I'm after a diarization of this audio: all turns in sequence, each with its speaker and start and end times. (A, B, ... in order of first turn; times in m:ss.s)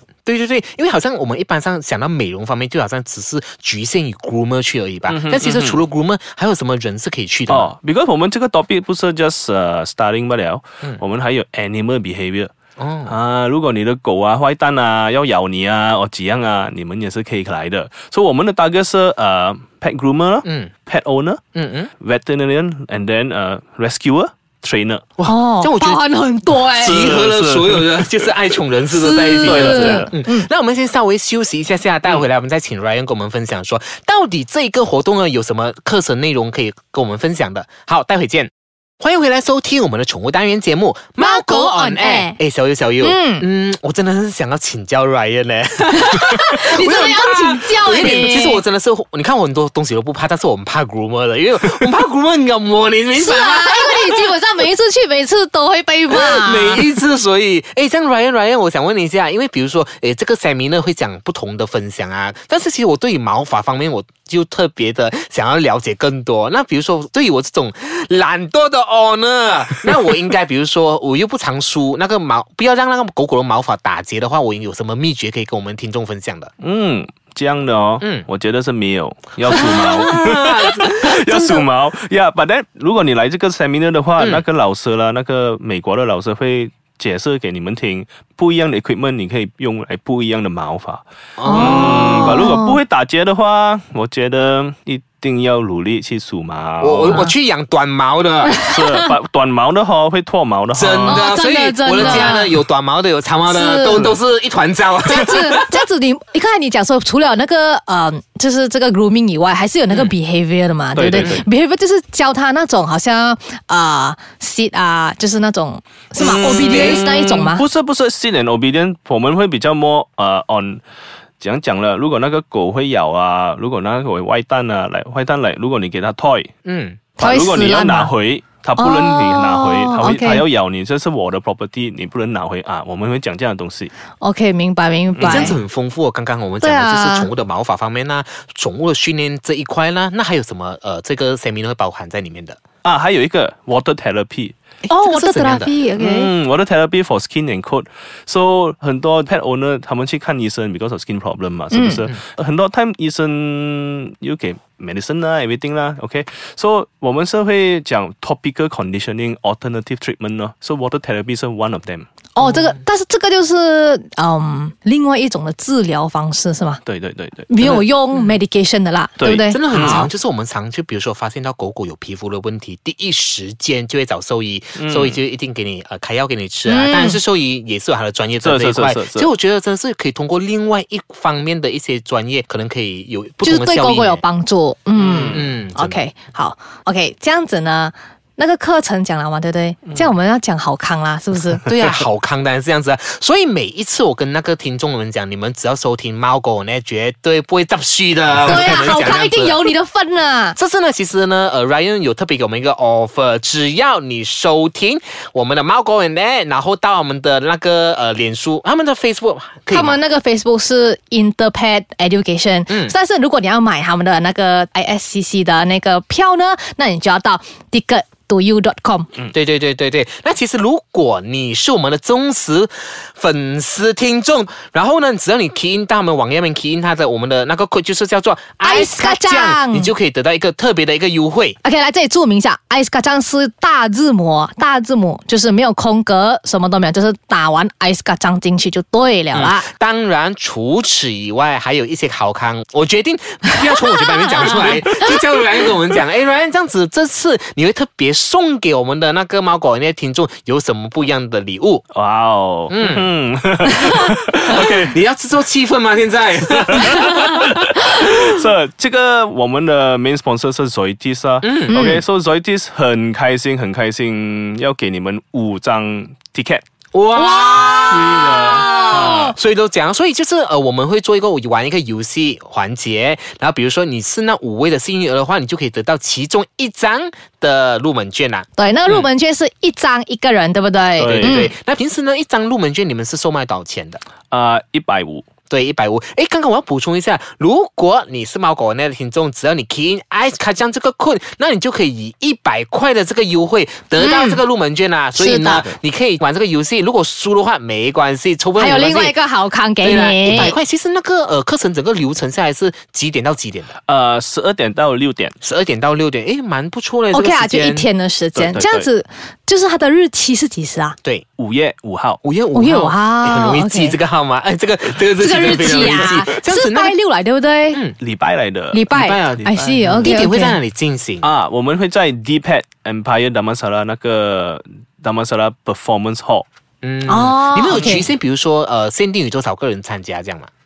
0:00.3-0:07.7 A
0:05.1-0:05.8 B
0:07.5-0:12.5 B
0:12.8-0:13.2 A
0:13.1-0:21.4 B
0:20.4-0:20.7 A
0:21.6-0:21.9 A
0:22.0-0:25.0 B
0:25.2-0:26.0 A
0:25.2-0:27.1 C
0:26.7-0:54.4 A
0:26.8-0:28.3 B
0:28.9-0:30.5 C
0:29.4-0:30.1 B
0:41.2-0:42.4 C
0:43.0-0:43.5 C
0:45.9-0:48.6 C
0:53.2-0:56.9 C
0:56.1-1:16.5 A
1:16.6-1:37.2 B
1:19.5-1:21.6 A
1:24.2-1:24.4 A
1:31.4-1:32.4 A
1:31.4-1:32.8 C
1:36.8-1:38.6 A
1:38.4-1:39.1 C
1:38.6-1:41.3 B
1:40.7-1:45.8 A
1:41.0-1:42.5 C
1:42.0-1:42.4 B
1:43.5-1:44.1 C
1:45.1-1:57.6 C
1:51.0-1:51.4 B
1:51.1-1:51.4 A
1:56.2-2:00.8 B
1:56.2-1:57.0 A
2:01.4-2:06.5 B
2:06.6-2:07.0 A
2:07.2-2:13.9 B
2:07.2-2:08.1 C
2:08.8-2:10.4 C
2:14.2-2:15.6 C
2:15.2-2:15.5 B
2:15.2-2:22.6 A
2:16.6-2:17.3 C
2:22.8-2:24.5 B
2:24.9-2:25.8 A
2:24.9-2:26.3 C
2:26.0-2:42.1 B
2:31.7-2:32.1 C
2:42.4-2:46.8 C
2:42.4-2:42.8 A
2:46.9-2:47.5 B
2:47.5-2:50.1 C
2:47.6-2:48.4 A
2:49.2-2:50.1 B
2:49.5-3:04.2 A
2:54.8-2:55.2 B
2:56.7-2:57.2 C
2:58.4-2:59.3 B
3:03.4-3:11.6 C
3:05.0-3:05.5 B
3:05.2-3:06.0 A
3:11.6-3:19.7 A
3:18.5-3:20.6 C
3:20.6-3:30.0 A
3:29.7-3:39.1 C
3:32.7-3:32.9 A
3:39.3-3:51.6 A
3:48.6-3:49.9 C
3:51.6-3:59.7 C
3:59.3-4:11.8 A
4:04.3-4:05.2 C
4:11.9-4:15.0 B
4:12.7-4:13.1 A
4:14.5-4:18.1 A
4:16.6-4:26.6 B
4:21.4-4:21.8 A
4:21.7-4:22.0 C
4:26.9-4:39.1 A
4:27.2-4:29.3 C
4:27.9-4:29.3 B
4:38.6-4:41.5 C
4:41.0-4:41.5 B
4:41.0-4:44.0 A
4:44.3-4:45.3 B
4:45.5-4:59.2 A
4:54.0-4:54.4 C
4:55.2-4:55.7 C
4:58.6-5:00.6 C
4:59.8-5:03.7 A
5:03.9-5:05.3 B
5:05.4-5:07.9 A
5:07.1-5:11.0 C
5:08.4-5:08.9 B
5:11.4-5:12.2 B
5:12.2-5:16.9 A
5:12.5-5:14.0 C
5:15.2-5:17.8 C
5:18.0-5:18.8 B
5:18.7-5:20.6 C
5:18.9-5:21.3 A
5:19.4-5:20.2 B
5:21.2-5:26.5 B
5:26.8-5:30.5 A
5:27.1-5:28.1 C
5:27.7-5:28.0 B